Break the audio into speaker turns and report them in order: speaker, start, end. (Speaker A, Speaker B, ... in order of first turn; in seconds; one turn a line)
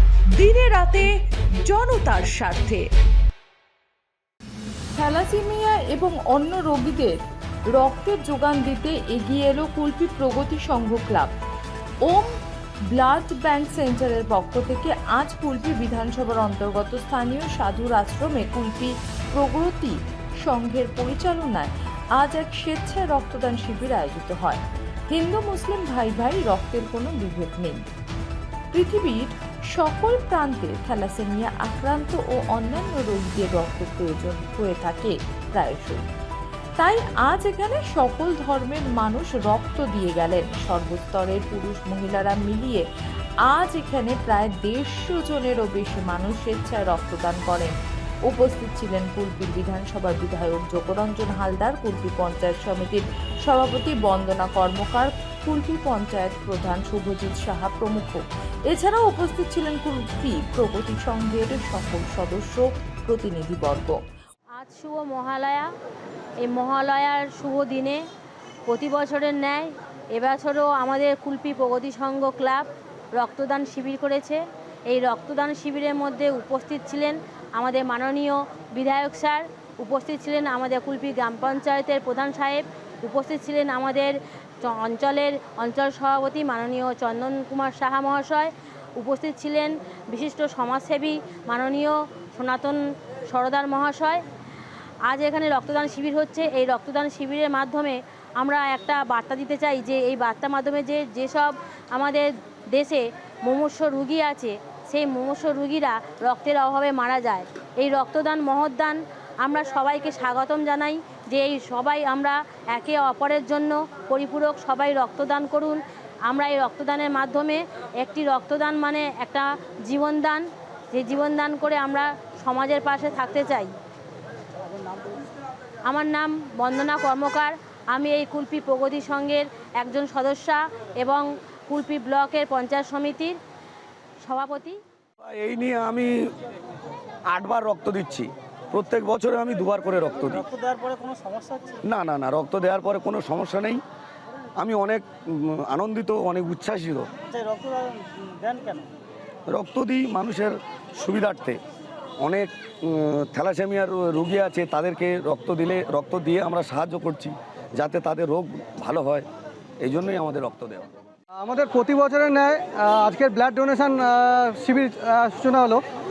Speaker A: 0.3-2.9
Speaker B: 5.0-7.2
Speaker B: 7.7-11.3
Speaker B: 12.1-12.3
Speaker B: 12.9-27.9
Speaker B: 28.7-36.1
Speaker B: 36.8-42.8
Speaker B: 43.5-47.7
Speaker B: 48.3-64.0
Speaker C: 64.6-65.7
Speaker C: 66.4-68.0
Speaker C: 68.7-92.8
Speaker C: 93.3-94.2
Speaker C: 95.1-123.7
Speaker C: 125.9-133.4
Speaker C: 134.2-134.8
Speaker D: 135.2-136.1
Speaker D: 137.3-140.4
Speaker E: 140.3-141.8
Speaker D: 141.8-143.8
Speaker D: 144.6-147.1
Speaker E: 147.3-148.9
Speaker D: 149.5-151.6
Speaker D: 152.2-159.3
Speaker D: 159.8-160.9
Speaker F: 161.4-165.8